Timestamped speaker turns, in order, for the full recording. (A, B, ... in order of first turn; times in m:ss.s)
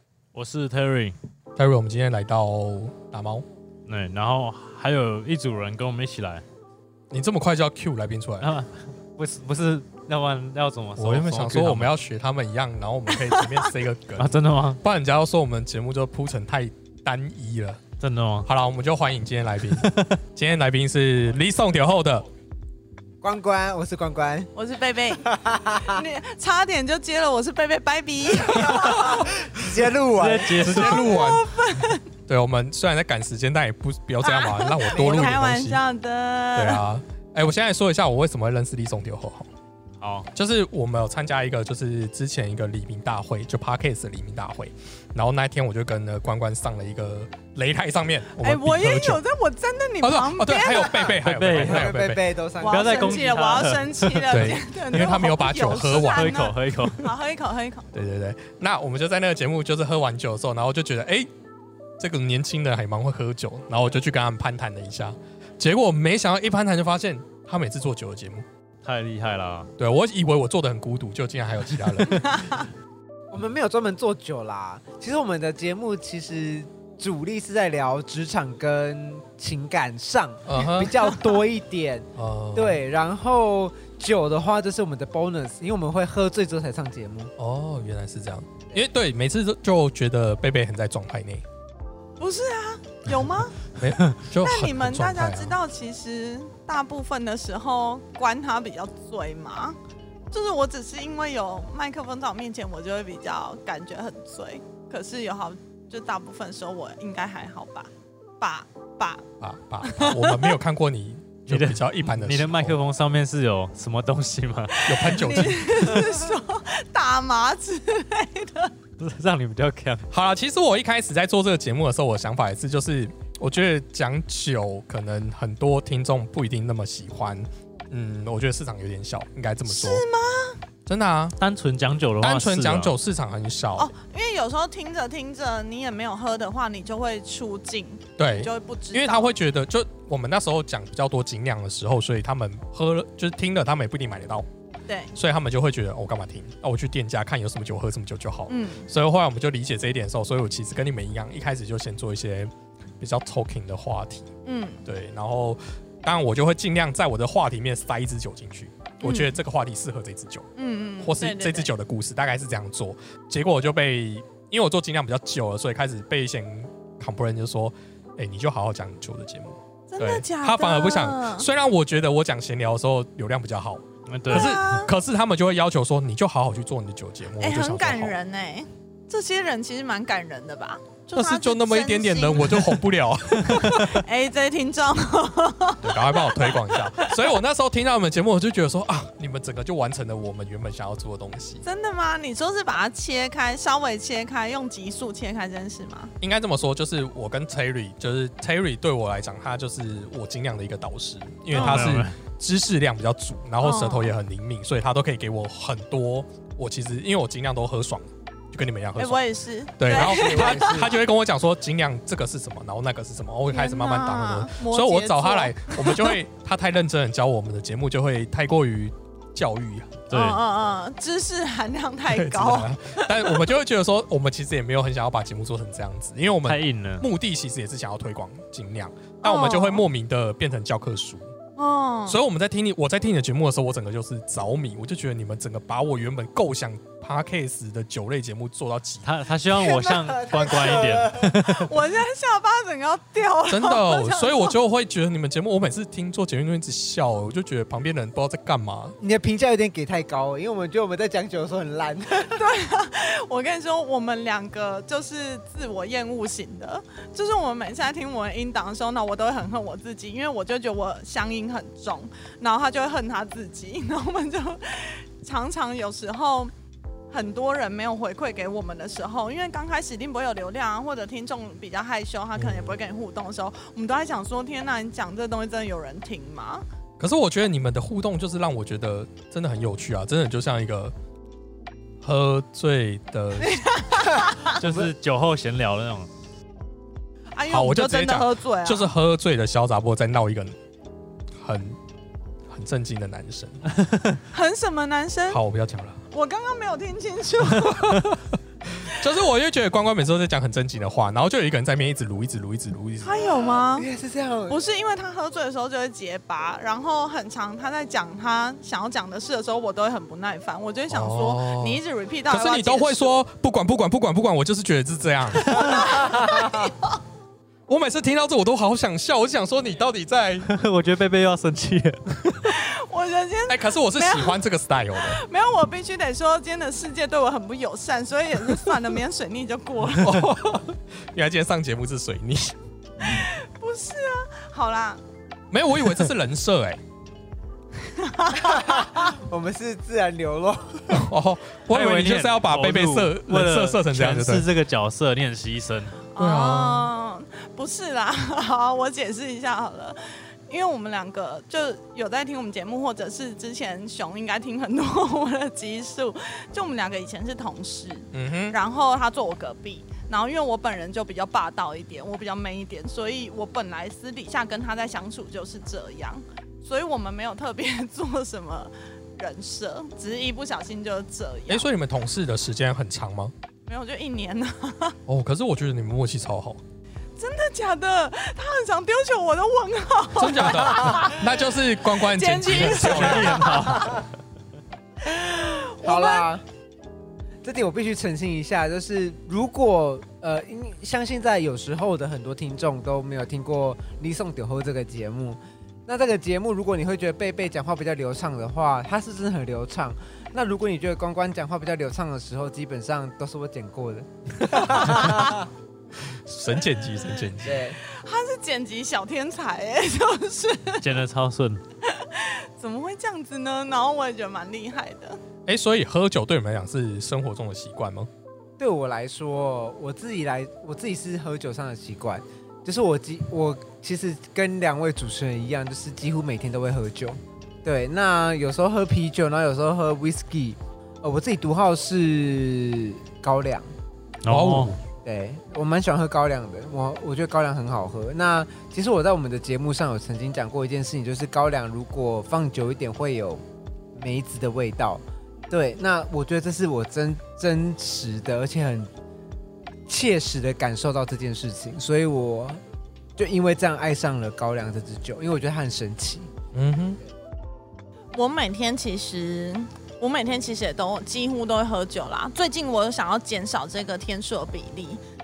0:00.3-0:01.1 A
0:01.6-0:03.4 B
0:03.9-0:06.4 A
0:07.1-0:08.5 B
0:08.4-0:11.9 A
0:11.0-0:17.8 B
0:14.2-0:14.8 A
0:18.0-0:18.5 A
0:18.4-0:22.2 B
0:19.7-0:20.2 A
0:23.2-0:24.5 C
0:24.5-0:25.3 D
0:25.1-0:26.0 C
0:25.8-0:29.3 D
0:28.5-0:30.9 C
0:30.1-0:31.0 A
0:30.6-0:31.5 B
0:30.8-0:32.1 D
0:32.2-0:35.8 B
0:34.2-0:36.8 D
0:34.9-0:35.4 C
0:36.5-0:39.5 B
0:40.0-0:40.3 A
0:40.3-0:49.2 B
0:48.4-0:51.1 D
0:50.0-0:52.2 B
0:50.6-0:53.4 C
0:51.2-0:51.9 A
0:52.6-0:54.5 A
0:52.6-0:57.9 D
0:54.3-0:56.3 B
0:55.7-0:57.1 A
0:57.9-1:01.3 B
1:02.0-1:08.4 B
1:08.8-1:09.7 A
1:09.8-1:12.6 B
1:12.1-1:12.6 D
1:13.3-1:27.3 C
1:20.5-1:21.0 B
1:22.2-1:22.8 B
1:27.4-1:31.4 B
1:32.2-1:33.6 D
1:33.8-1:35.6 B
1:34.4-1:39.8 D
1:40.3-1:49.2 D
1:49.4-1:52.8 B
1:49.8-1:50.6 D
1:51.5-1:55.4 A
1:54.7-1:58.7 D
1:54.8-1:56.1 B
1:59.0-2:00.0 A
2:00.1-2:10.0 B
2:09.7-2:10.6 D
2:10.8-2:11.4 B
2:11.4-2:12.9 A
2:12.2-2:13.9 B
2:13.8-2:19.3 D
2:18.2-2:24.5 B
2:24.9-2:25.1 D
2:25.1-2:34.3 B
2:28.5-2:28.9 D
2:34.4-2:34.8 D
2:34.8-2:40.5 B
2:39.0-2:39.4 D
2:40.6-2:41.7 D
2:41.0-2:58.2 B
2:49.9-2:51.5 D
2:54.1-2:54.6 A
2:54.3-2:54.9 D
2:57.4-3:02.8 D
3:01.2-3:04.0 B
3:03.4-3:07.1 D
3:05.8-3:11.6 B
3:11.6-3:16.1 D
3:16.2-3:29.2 B
3:21.5-3:21.9 D
3:21.5-3:22.2 A
3:23.6-3:24.1 D
3:29.0-3:30.9 D
3:29.8-3:40.0 B
3:29.9-3:31.0 C
3:33.5-3:36.2 D
3:40.1-3:40.4 A
3:40.1-3:43.5 D
3:42.1-3:51.3 B
3:46.4-3:47.1 A
3:49.2-3:49.8 D
3:51.6-3:52.2 D
3:52.1-3:59.1 B
3:59.0-4:01.7 A
3:59.5-4:01.4 C
4:01.4-4:04.6 D
4:03.5-4:09.0 B
4:09.0-4:12.4 C
4:12.3-4:26.5 D
4:27.1-4:36.6 D
4:32.4-4:32.8 B
4:37.0-4:40.9 B
4:42.0-4:43.6 B
4:43.4-4:44.6 D
4:44.4-4:46.1 A
4:47.3-4:48.9 D
4:47.5-4:50.6 B
4:51.4-4:51.8 B
4:52.5-4:53.8 B
4:54.3-4:55.4 D
4:55.3-4:56.0 B
4:56.1-4:58.1 D
4:57.8-4:58.1 B
4:58.8-5:03.4 B
5:03.0-5:03.9 D
5:03.4-5:04.6 C
5:04.5-5:13.1 D
5:10.9-5:16.7 B
5:15.4-5:17.0 D
5:17.7-5:20.5 B
5:20.5-5:22.6 A
5:22.4-5:24.4 D
5:23.5-5:25.2 B
5:25.0-5:30.3 D
5:30.0-5:32.6 B
5:33.0-5:35.0 D
5:35.5-5:36.8 B
5:37.8-5:39.1 D
5:38.3-5:41.1 C
5:40.9-5:44.5 B
5:41.7-5:46.0 A
5:46.1-6:11.7 D
5:46.2-5:46.9 B
5:58.1-5:58.6 B
6:11.5-6:13.3 B
6:13.7-6:15.0 D
6:15.0-6:16.6 B
6:17.2-6:21.2 D
6:20.1-6:23.5 B
6:21.8-6:24.0 D
6:22.5-6:24.1 A
6:25.3-6:26.3 D
6:25.4-6:26.4 C
6:27.4-6:45.5 C
6:44.6-6:45.2 B
6:46.1-6:47.6 B
6:47.4-6:47.8 C
6:47.8-6:50.9 D
6:50.8-6:51.6 A
6:51.8-6:55.2 D
6:55.4-6:58.1 B
6:58.6-7:13.7 C
7:14.2-7:14.7 A
7:14.3-7:14.8 B
7:15.0-7:23.4 C
7:23.9-7:28.9 C
7:29.9-7:32.6 C
7:33.2-7:36.3 C
7:36.5-7:37.0 B
7:38.1-7:45.0 D